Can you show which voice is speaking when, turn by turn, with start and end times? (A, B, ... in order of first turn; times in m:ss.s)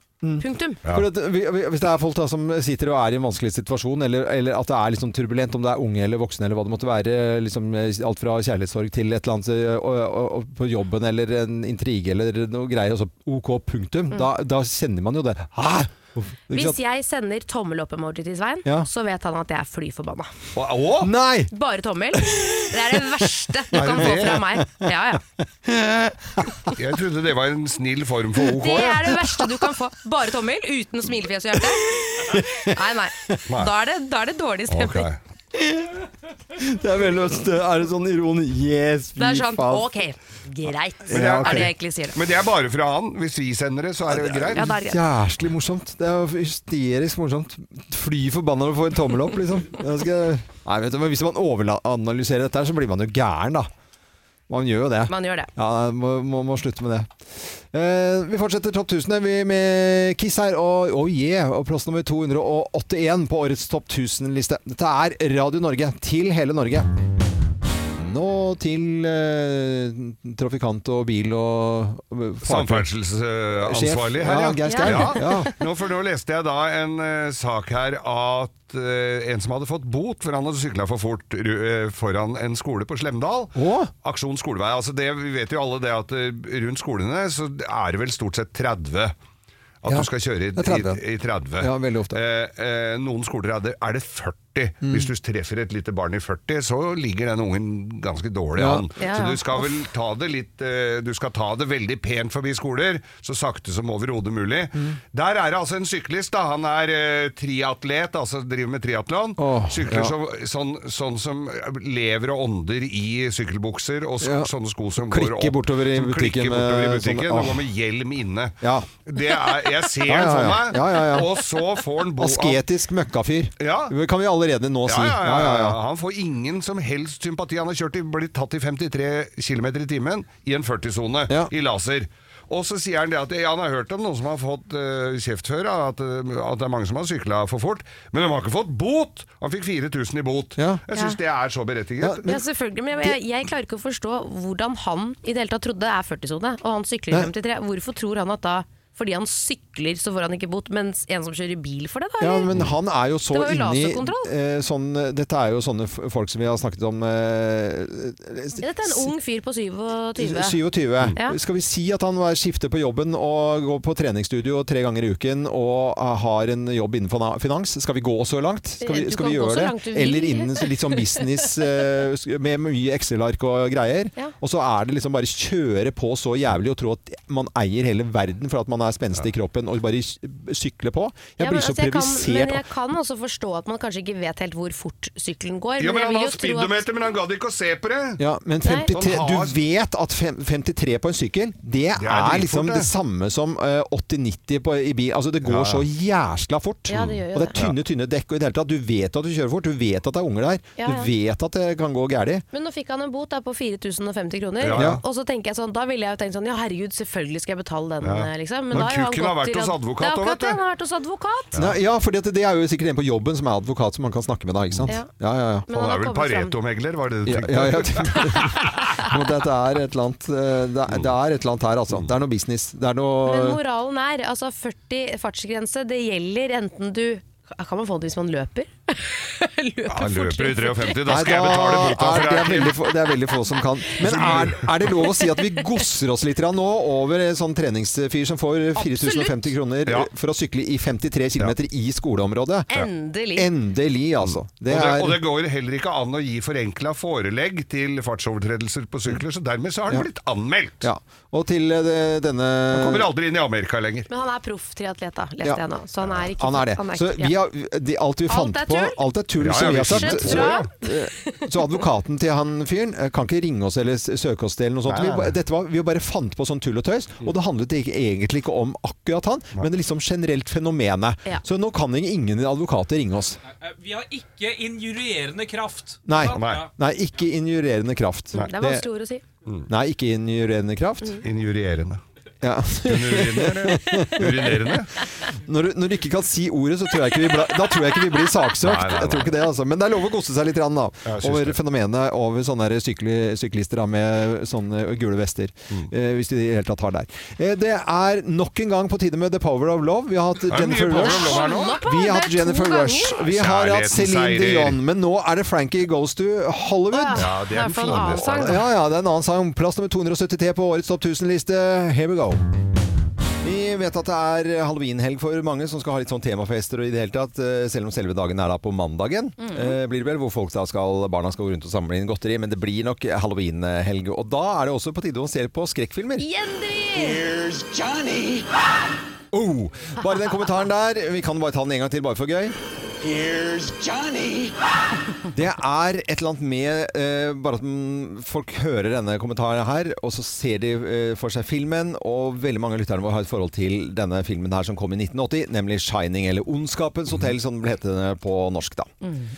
0:00.2-0:16.8 A
0:00.4-0:00.8 B
0:16.5-0:20.3 B
0:20.6-0:21.1 C
0:21.0-0:21.5 A
0:21.5-0:25.2 B
0:22.2-0:23.0 A
0:23.7-0:24.9 A
0:23.8-0:24.4 C
0:25.7-0:26.5 A
0:26.7-0:29.0 C
0:28.5-0:29.5 A
0:28.6-0:35.1 B
0:32.0-0:32.7 A
0:34.7-0:35.2 C
0:35.6-0:35.9 A
0:36.6-0:39.9 A
0:39.2-0:42.2 B
0:41.1-0:41.7 A
0:41.1-0:44.6 C
0:44.1-0:53.7 A
0:44.5-0:45.0 B
0:54.5-1:06.9 A
0:55.1-0:55.5 B
1:08.0-1:12.9 A
1:12.4-1:29.1 C
1:13.6-1:15.5 A
1:14.6-1:15.5 B
1:23.6-1:23.9 A
1:29.8-2:02.6 C
1:29.9-1:31.0 A
1:31.6-1:32.2 A
1:34.8-1:35.1 A
1:38.6-1:38.9 A
1:39.0-1:39.7 B
1:49.4-1:50.1 A
1:54.2-1:57.6 A
1:58.6-1:58.9 A
2:00.0-2:01.4 A
2:02.2-2:05.8 A
2:03.6-2:03.9 C
2:04.9-2:22.2 C
2:20.6-2:20.8 A
2:22.0-2:22.4 A
2:22.2-2:32.5 B
2:32.2-2:39.1 A
2:33.3-2:34.3 B
2:38.6-2:40.6 B
2:40.2-3:02.7 A
2:48.8-2:51.2 B
3:01.4-3:06.8 B
3:05.8-3:08.2 C
3:08.2-3:22.4 A
3:08.6-3:08.9 B
3:08.9-3:09.6 C
3:12.0-3:12.9 C
3:15.4-3:15.8 C
3:16.9-3:17.7 B
3:17.0-3:17.7 C
3:20.8-3:21.1 B
3:22.5-3:31.5 B
3:24.6-3:25.0 C
3:24.8-3:25.0 A
3:28.0-3:30.6 C
3:31.6-3:35.6 A
3:35.7-3:36.5 B
3:35.7-3:38.7 C
3:37.2-3:43.6 A
3:38.2-3:38.5 B
3:43.2-3:51.0 B
3:49.9-3:52.9 C
3:51.0-4:05.2 A
3:54.0-3:54.9 C
3:55.0-3:55.6 B
3:58.8-3:59.5 B
4:02.7-4:03.5 B
4:04.2-4:10.8 C
4:10.8-4:13.1 A
4:12.7-4:14.1 C
4:14.1-4:17.4 B
4:16.4-4:33.4 A
4:18.3-4:19.0 B
4:19.4-4:20.7 C
4:19.8-4:21.4 B
4:24.9-4:25.4 C
4:33.7-4:36.0 D
4:36.0-4:38.8 A
4:36.3-4:36.7 C
4:38.3-4:39.2 B
4:39.7-4:41.2 A
4:41.2-4:42.0 C
4:42.4-4:44.6 A
4:42.8-4:45.0 C
4:45.4-5:07.3 A
4:48.6-4:49.4 C
4:51.1-4:51.6 C
5:00.5-5:01.8 C
5:00.9-5:03.1 B
5:03.2-5:04.8 C
5:06.9-5:08.6 B
5:07.2-5:08.6 C
5:07.9-5:12.4 A
5:13.4-5:26.2 A
5:19.4-5:19.8 B
5:26.2-5:27.3 B
5:29.3-5:32.6 A
5:35.3-5:48.9 A